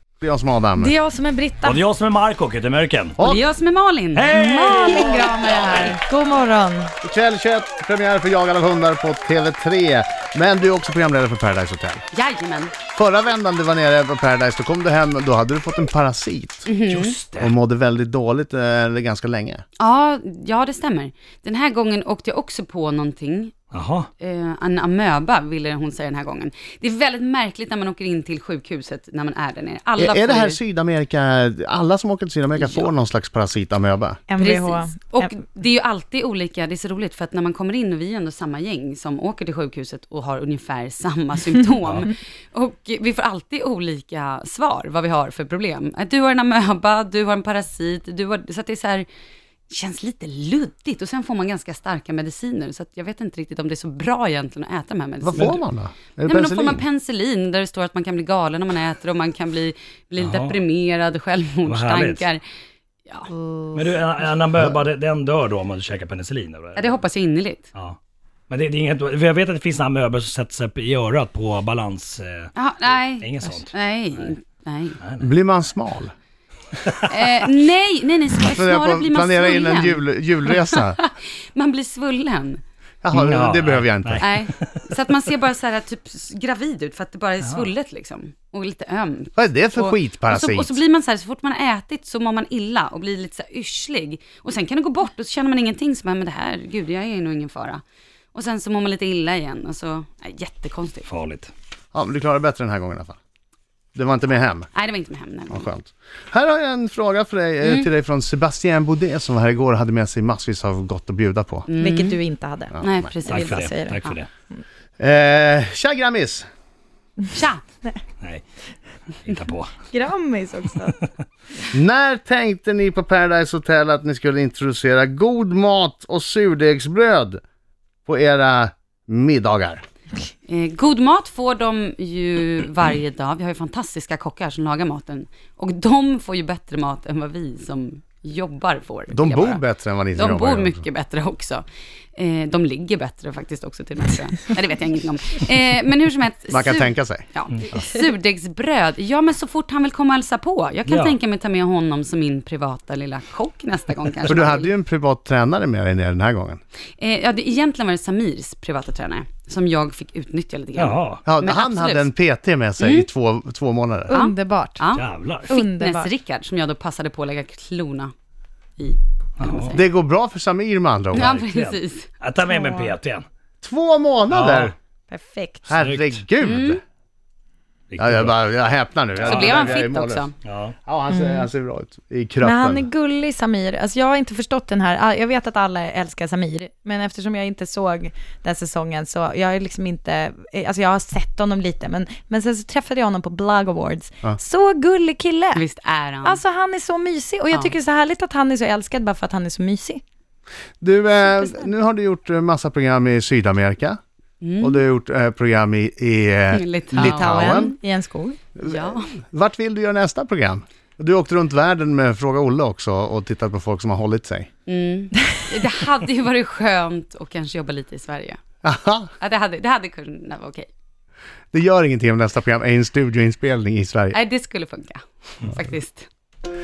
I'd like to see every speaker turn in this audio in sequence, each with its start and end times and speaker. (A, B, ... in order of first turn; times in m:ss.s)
0:00.2-0:00.9 A
0:00.8-0:01.8 B
0:01.6-0:03.2 C
0:03.2-0:05.9 D
0:04.2-0:05.2 C
0:04.3-0:06.9 B
0:07.0-0:12.0 A
0:12.1-0:12.7 D
0:12.9-0:16.7 A
0:16.7-0:17.2 D
0:16.9-0:17.6 C
0:17.4-0:19.6 A
0:19.8-0:23.5 D
0:23.7-0:24.1 C
0:24.2-0:30.6 D
0:30.0-0:34.2 A
0:32.6-0:32.9 D
0:34.3-0:35.3 B
0:34.4-0:49.1 D
0:41.8-0:42.1 C
0:49.7-0:55.6 D
0:55.2-0:56.8 A
0:56.3-1:02.4 D
1:00.2-1:00.6 C
1:01.6-1:02.2 C
1:03.8-1:07.0 C
1:06.8-1:07.7 D
1:08.5-1:12.5 C
1:12.6-1:15.0 D
1:13.2-1:13.7 C
1:15.0-1:15.3 C
1:15.2-1:16.1 A
1:16.8-1:17.2 C
1:17.1-1:22.6 D
1:18.5-1:21.0 A
1:23.0-1:24.2 A
1:23.1-1:24.9 C
1:24.2-1:37.8 D
1:29.4-1:30.8 A
1:38.3-1:41.1 D
1:41.1-1:41.5 C
1:41.9-1:43.2 A
1:44.0-1:44.7 A
1:44.7-1:45.7 D
1:45.5-1:51.7 A
1:51.7-1:52.2 D
1:51.8-1:52.7 B
1:52.7-1:53.1 A
1:52.8-1:54.2 D
1:53.3-1:54.0 B
1:53.3-1:54.3 C
1:55.0-1:56.5 A
1:57.3-1:57.6 D
1:59.2-1:59.7 C
1:59.9-2:01.0 B
2:01.7-2:07.4 A
2:08.1-2:09.8 A
2:10.5-2:19.6 D
2:19.1-2:20.8 A
2:20.1-2:21.6 D
2:22.2-2:34.7 D
2:26.5-2:27.2 A
2:27.5-2:27.9 C
2:30.9-2:31.2 C
2:34.3-2:36.6 A
2:37.0-2:42.1 D
2:40.8-2:41.2 C
2:41.3-2:44.2 A
2:42.8-2:43.1 D
2:44.1-2:44.8 B
2:44.1-2:48.1 D
2:45.0-2:45.5 C
2:45.5-2:46.1 B
2:48.8-2:49.8 D
2:49.4-2:49.8 C
2:49.7-2:51.3 A
2:51.1-2:53.3 C
2:51.2-2:52.1 D
2:52.5-2:52.9 B
2:53.6-2:54.7 A
2:54.3-2:54.7 C
2:55.1-2:55.7 B
2:55.7-2:56.8 A
2:55.8-2:56.2 C
2:56.4-2:56.8 D
2:57.9-2:58.4 C
2:58.0-3:00.3 A
2:59.2-2:59.7 C
2:59.2-3:00.3 D
3:00.4-3:00.8 C
3:00.9-3:02.9 A
3:01.1-3:01.5 B
3:02.4-3:15.6 B
3:15.5-3:16.4 D
3:16.2-3:20.0 B
3:20.8-3:24.0 A
3:24.4-3:24.8 D
3:24.6-3:27.8 A
3:26.5-3:27.8 D
3:26.9-3:28.4 B
3:28.6-3:34.5 A
3:28.6-3:29.1 D
3:34.7-3:38.4 D
3:38.6-3:39.1 A
3:39.2-3:40.7 D
3:41.5-3:44.2 A
3:44.1-3:46.1 D